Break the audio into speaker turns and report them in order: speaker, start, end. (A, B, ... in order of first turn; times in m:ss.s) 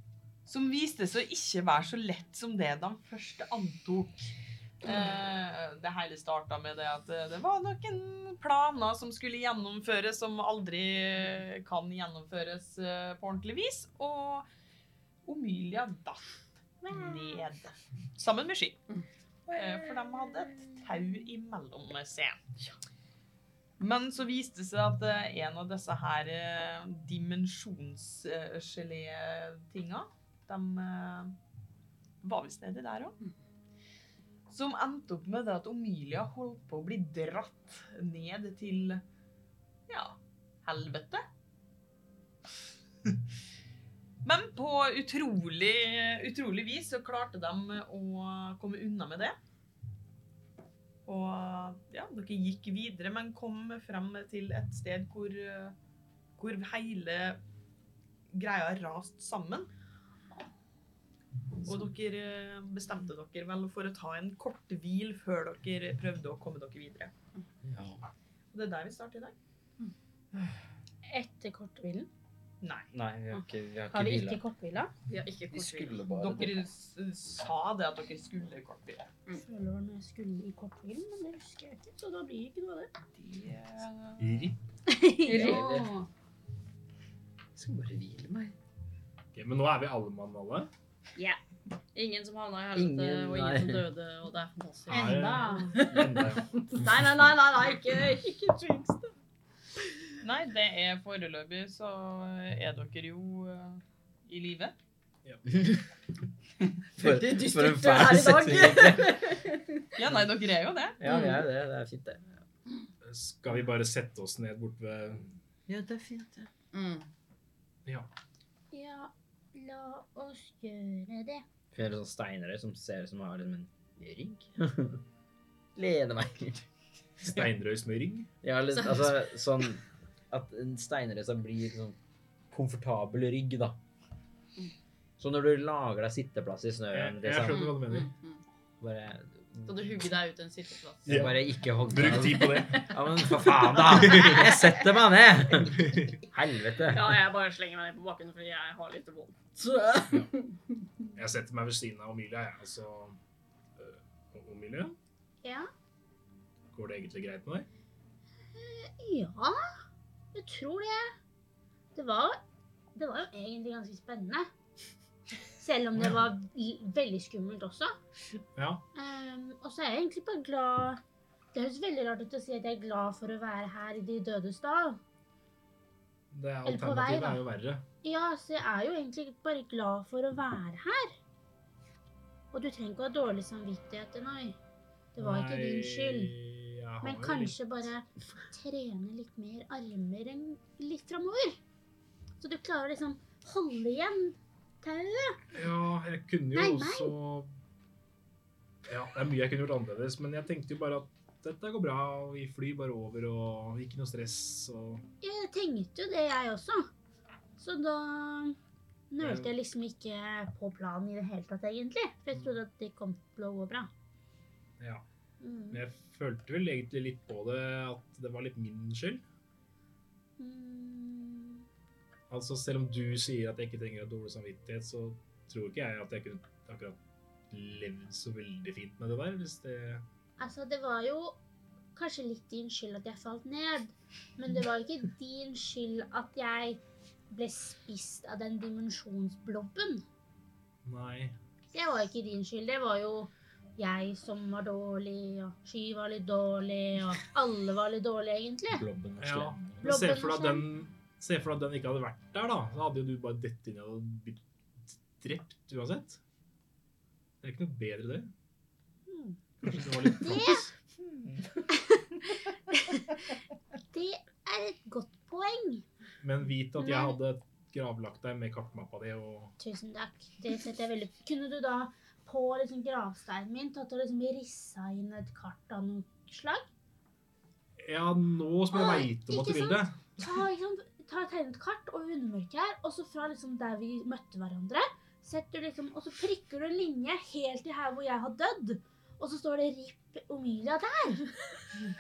0:00.4-0:14.5 A
0:15.2-0:16.3 A
0:16.8-0:18.8 A
0:19.5-0:22.4 A
0:23.8-0:31.4 A
0:32.2-0:33.2 A
0:34.5-0:39.0 A
0:39.9-0:41.2 A
0:44.2-0:49.4 A
0:51.1-0:55.8 A
0:56.4-0:57.4 A
0:58.3-0:59.7 A
1:01.6-1:07.1 A
1:07.6-1:08.1 B
1:08.5-1:09.4 A
1:11.1-1:12.1 C
1:12.6-1:12.9 A
1:12.9-1:14.4 B
1:13.9-1:14.9 C
1:15.1-1:16.0 D
1:15.5-1:16.7 B
1:16.2-1:19.1 A
1:19.3-1:22.9 C
1:23.2-1:24.4 A
1:24.2-1:24.6 E
1:24.9-1:26.1 C
1:25.3-1:25.7 D
1:25.3-1:25.9 B
1:27.6-1:28.6 B
1:29.3-1:30.7 E
1:31.9-1:39.2 D
1:32.7-1:33.9 B
1:34.9-1:36.5 E
1:34.9-1:35.8 C
1:40.2-1:44.8 A
1:45.5-1:45.8 B
1:46.9-1:49.2 B
1:47.0-1:49.9 D
1:50.0-1:51.0 A
1:51.0-1:52.2 B
1:51.1-1:51.4 C
1:53.0-1:55.3 E
1:55.7-1:56.5 B
1:56.7-1:57.1 D
1:58.7-2:01.4 C
2:01.7-2:05.0 B
2:05.8-2:06.7 B
2:07.2-2:08.3 E
2:08.4-2:12.0 B
2:12.5-2:13.8 B
2:15.2-2:17.7 B
2:16.9-2:18.1 E
2:17.5-2:18.4 D
2:18.8-2:19.9 B
2:19.6-2:21.3 D
2:21.0-2:22.9 E
2:21.1-2:27.1 B
2:22.5-2:23.0 D
2:23.5-2:24.4 E
2:23.6-2:24.7 D
2:25.7-2:26.2 E
2:26.8-2:30.6 D
2:29.6-2:30.2 B
2:31.2-2:33.2 E
2:33.8-2:35.0 E
2:35.4-2:35.7 C
2:36.7-2:37.7 E
2:38.5-2:39.7 C
2:40.3-2:41.2 C
2:42.0-2:42.4 C
2:43.0-2:44.5 C
2:45.6-2:48.0 C
2:46.0-2:46.3 E
2:48.6-2:48.8 E
2:49.0-2:51.0 C
2:51.5-2:55.0 C
2:56.3-2:57.9 E
2:56.7-2:57.4 C
2:58.0-3:01.2 C
3:02.5-3:04.6 C
3:05.1-3:06.3 C
3:05.2-3:07.6 E
3:07.0-3:11.6 C
3:12.4-3:15.4 C
3:15.5-3:17.5 E
3:16.5-3:17.2 C
3:18.9-3:25.0 E
3:25.2-3:26.9 C
3:27.6-3:28.6 C
3:29.1-3:33.9 C
3:29.2-3:29.6 E
3:34.8-3:35.0 E
3:35.4-3:35.8 C
3:35.7-3:39.2 E
3:40.4-3:41.6 C
3:42.3-3:47.0 E
3:47.5-3:50.0 E
3:50.4-3:51.4 C
3:52.0-4:00.0 C
4:00.8-4:01.4 E
4:01.7-4:08.9 C
4:08.7-4:09.8 B
4:09.2-4:14.4 E
4:09.8-4:10.6 C
4:15.2-4:16.2 E
4:17.4-4:18.3 E
4:19.1-4:19.4 C
4:19.6-4:20.7 E
4:20.2-4:20.7 C
4:21.7-4:23.1 C
4:23.9-4:25.8 C
4:26.2-4:29.5 E
4:26.8-4:27.2 C
4:29.6-4:36.7 C
4:37.8-4:40.0 E
4:38.7-4:51.3 C